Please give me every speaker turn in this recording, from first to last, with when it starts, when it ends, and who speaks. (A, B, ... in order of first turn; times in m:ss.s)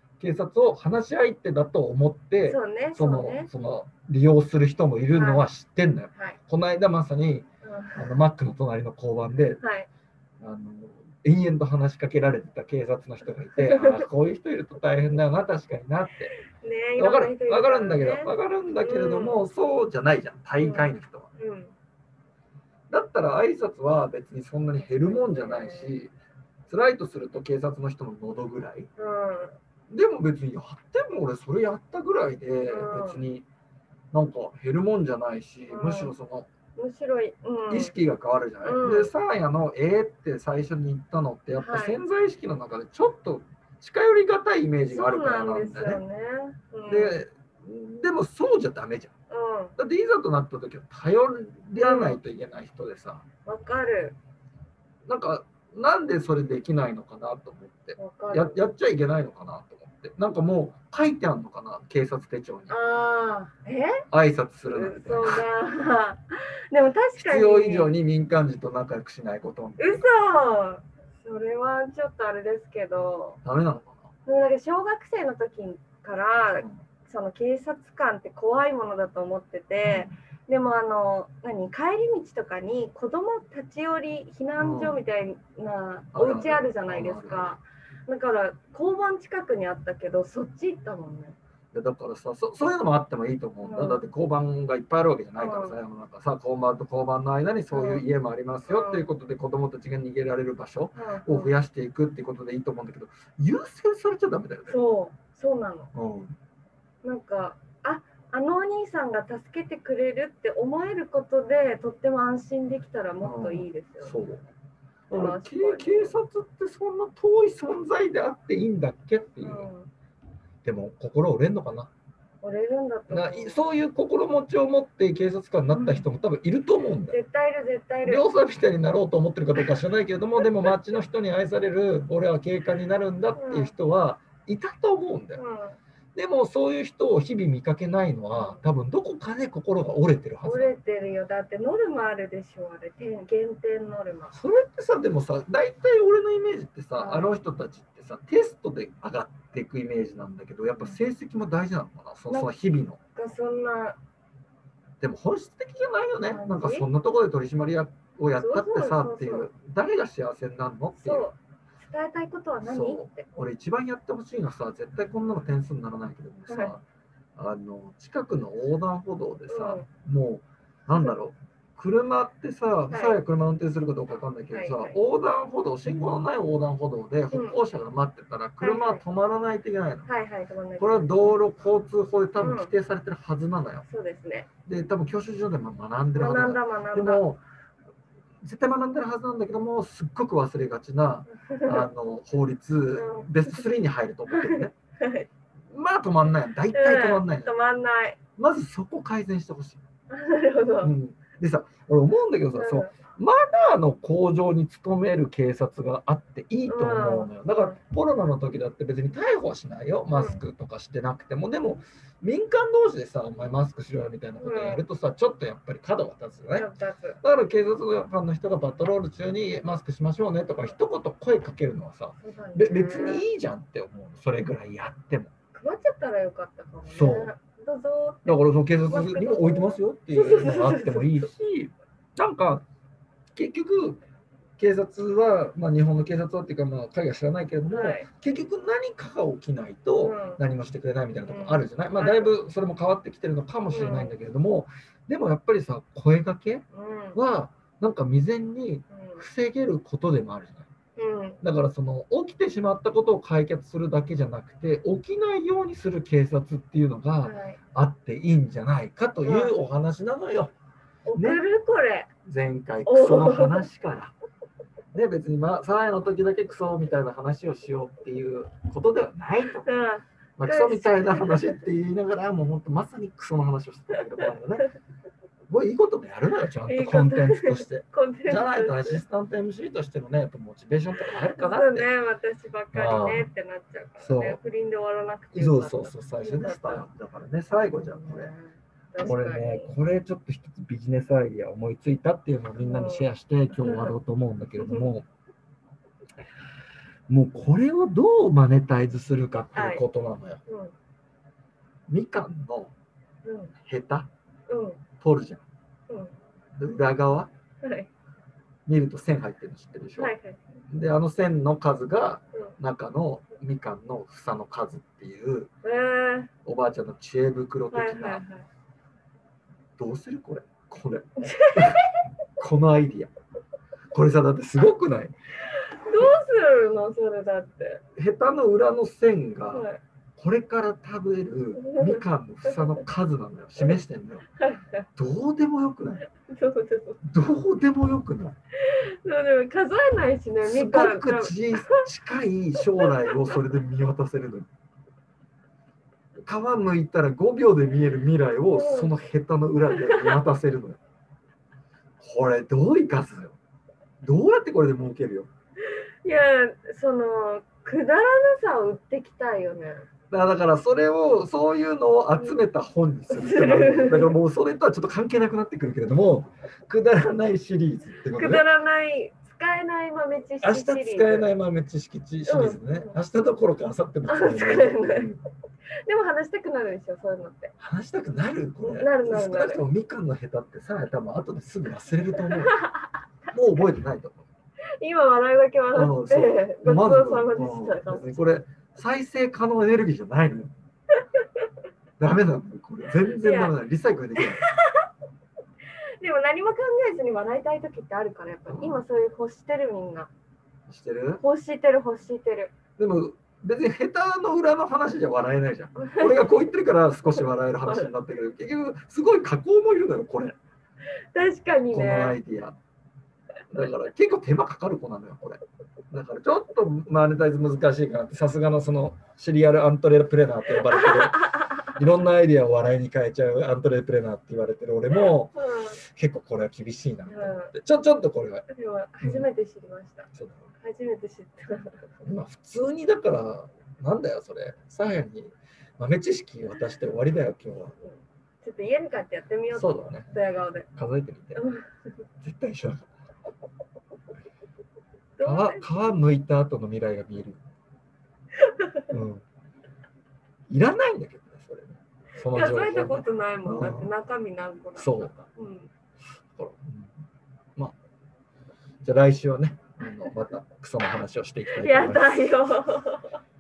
0:00.2-0:09.6 A
0:02.4-0:03.5 B
0:05.2-0:05.4 B
0:07.6-0:08.1 B
0:09.6-0:09.9 B
0:10.4-0:16.4 A
0:13.6-0:14.0 B
0:16.4-0:19.4 B
0:17.0-0:21.3 A
0:20.6-0:21.7 B
0:22.9-0:26.1 A
0:24.9-0:25.9 B
0:26.7-0:28.9 A
0:29.0-0:29.6 B
0:29.9-0:33.5 A
0:32.7-0:33.2 B
0:34.1-0:36.5 A
0:35.7-0:36.1 B
0:36.8-0:37.9 B
0:37.7-0:46.0 A
0:38.6-0:39.1 B
0:41.6-0:42.0 B
0:44.9-0:47.2 B
0:46.9-0:49.1 A
0:49.3-0:49.8 B
0:49.8-0:53.2 A
0:51.8-0:52.2 B
0:53.5-0:54.2 B
0:55.1-1:02.8 A
0:58.0-0:58.6 B
1:02.7-1:04.0 B
1:04.1-1:05.4 A
1:04.7-1:07.9 B
1:07.2-1:10.1 A
1:09.8-1:13.4 B
1:13.4-1:14.1 A
1:14.2-1:31.4 B
1:19.8-1:20.1 A
1:24.6-1:25.0 A
1:26.1-1:27.6 A
1:31.7-1:44.8 A
1:33.6-1:34.0 B
1:35.4-1:35.8 B
1:37.7-1:38.0 B
1:38.7-1:39.1 B
1:40.9-1:41.5 B
1:44.7-1:45.9 B
1:45.9-1:46.4 A
1:47.0-1:54.2 B
1:53.2-1:54.4 A
1:55.1-1:59.7 A
1:55.1-1:56.1 B
1:59.4-1:59.9 B
2:00.6-2:01.9 A
2:02.4-2:03.6 B
2:03.1-2:07.2 A
2:05.7-2:06.0 B
2:07.1-2:08.2 B
2:08.0-2:15.4 A
2:13.4-2:13.7 B
2:15.4-2:15.8 B
2:16.2-2:20.8 A
2:18.4-2:18.6 B
2:20.4-2:24.4 B
2:24.3-2:33.0 A
2:27.0-2:27.3 B
2:33.2-2:34.0 B
2:35.0-2:41.3 A
2:36.2-2:36.9 B
2:38.4-2:39.5 B
2:41.0-2:43.3 B
2:42.6-2:46.8 A
2:47.4-3:00.1 A
2:49.5-2:49.9 B
2:52.9-2:53.2 B
2:54.5-2:55.0 B
2:57.3-2:57.6 B
2:58.6-2:59.0 B
3:00.1-3:01.4 B
3:00.8-3:03.8 A
3:02.4-3:02.7 B
3:03.9-3:04.5 B
3:04.7-3:07.4 A
3:06.2-3:07.2 B
3:08.4-3:14.8 A
3:11.4-3:11.9 B
3:13.0-3:13.6 B
3:14.3-3:15.3 B
3:15.7-3:17.5 A
3:16.7-3:18.2 B
3:18.4-3:19.8 A
3:20.1-3:20.9 B
3:20.8-3:36.7 A
3:22.5-3:22.9 B
3:26.7-3:27.7 B
3:30.1-3:30.4 B
3:34.4-3:34.8 B
3:36.5-3:37.2 B
3:37.2-3:45.3 A
3:42.2-3:43.2 B
3:45.5-3:51.3 B
3:46.9-3:47.3 A
3:48.2-3:52.6 A
3:53.4-3:54.0 A
3:54.6-4:10.7 A
3:57.7-3:58.1 B
4:00.0-4:00.4 B
4:01.3-4:02.3 B
4:03.7-4:04.1 B
4:06.7-4:07.2 B
4:08.9-4:09.2 B
4:11.0-4:11.4 B
4:11.4-4:20.5 A
4:17.2-4:17.6 B
4:19.2-4:19.5 B
4:21.1-4:22.1 B
4:21.1-4:21.4 A
4:22.2-4:24.1 A
4:22.8-4:23.6 B
4:24.9-4:29.7 A
4:29.6-4:31.6 B
4:30.4-4:34.7 A
4:35.5-4:41.9 A
4:36.6-4:39.0 B
4:41.4-4:46.8 B
4:42.7-4:43.3 A
4:44.0-4:44.4 A
4:45.3-4:48.3 A
4:47.5-4:49.7 B
4:49.0-4:55.1 A
4:52.6-4:53.1 B
4:53.6-4:53.9 B
4:54.6-4:54.9 B
4:57.1-5:00.4 A
4:59.5-4:59.8 B
5:00.5-5:00.7 B
5:01.9-5:02.7 A
5:03.2-5:03.5 B
5:03.6-5:04.1 A
5:04.5-5:04.8 B
5:05.0-5:05.4 A
5:06.6-5:07.3 A
5:07.6-5:07.9 B
5:08.7-5:10.1 A
5:10.0-5:10.4 B
5:10.7-5:15.5 A
5:15.6-5:16.3 B
5:16.4-5:18.2 A
5:17.7-5:18.5 B
5:19.8-5:21.9 A
5:21.2-5:21.9 B
5:22.4-5:23.1 A
5:23.9-5:25.1 A
5:25.8-5:27.8 B
5:28.0-5:34.2 A
5:29.5-5:29.8 B
5:31.6-5:32.8 B
5:34.4-5:34.8 B
5:35.0-5:36.1 A
5:36.2-5:37.0 B
5:37.0-5:38.4 A
5:38.6-5:41.8 B
5:40.4-5:44.5 A
5:42.6-5:43.3 B
5:46.2-5:50.8 A
5:48.5-5:48.9 B
5:49.7-5:50.2 B
5:52.0-5:53.4 A
5:54.0-5:55.3 A
5:56.0-5:59.9 B
6:00.1-6:08.4 A
6:03.1-6:04.1 B
6:08.2-6:11.3 B
6:10.4-6:15.2 A
6:12.2-6:13.0 B
6:14.1-6:15.1 B
6:15.9-6:17.5 B
6:17.6-6:22.6 A
6:18.6-6:19.6 B
6:22.4-6:22.9 B
6:23.3-6:24.3 A
6:24.8-6:28.2 B
6:25.7-6:30.5 A
6:32.0-6:34.4 A
6:33.1-6:33.5 B
6:34.2-6:34.9 B
6:36.0-6:40.1 B
6:38.5-6:38.8 A
6:40.7-6:41.2 A
6:41.2-6:42.5 B
6:42.8-6:50.4 A
6:46.0-6:46.2 B
6:51.1-6:52.2 B
6:51.7-6:52.6 A
6:53.5-7:08.5 A
7:00.6-7:01.7 B
7:05.0-7:05.8 B
7:07.1-7:07.5 B
7:08.5-7:11.8 B
7:09.0-7:09.3 A
7:10.1-7:10.5 A
7:12.0-7:17.8 A
7:17.8-7:20.7 B
7:19.5-7:20.1 A
7:20.7-7:21.4 A
7:21.4-7:21.7 B
7:22.2-7:22.9 A
7:25.2-7:26.0 B
7:25.2-7:27.4 A
7:28.5-7:28.8 B
7:28.9-7:29.2 A
7:30.5-7:33.9 A
7:32.3-7:35.7 B
7:34.8-7:35.1 A
7:36.3-7:36.9 A
7:38.8-7:42.1 A
7:41.5-7:43.2 B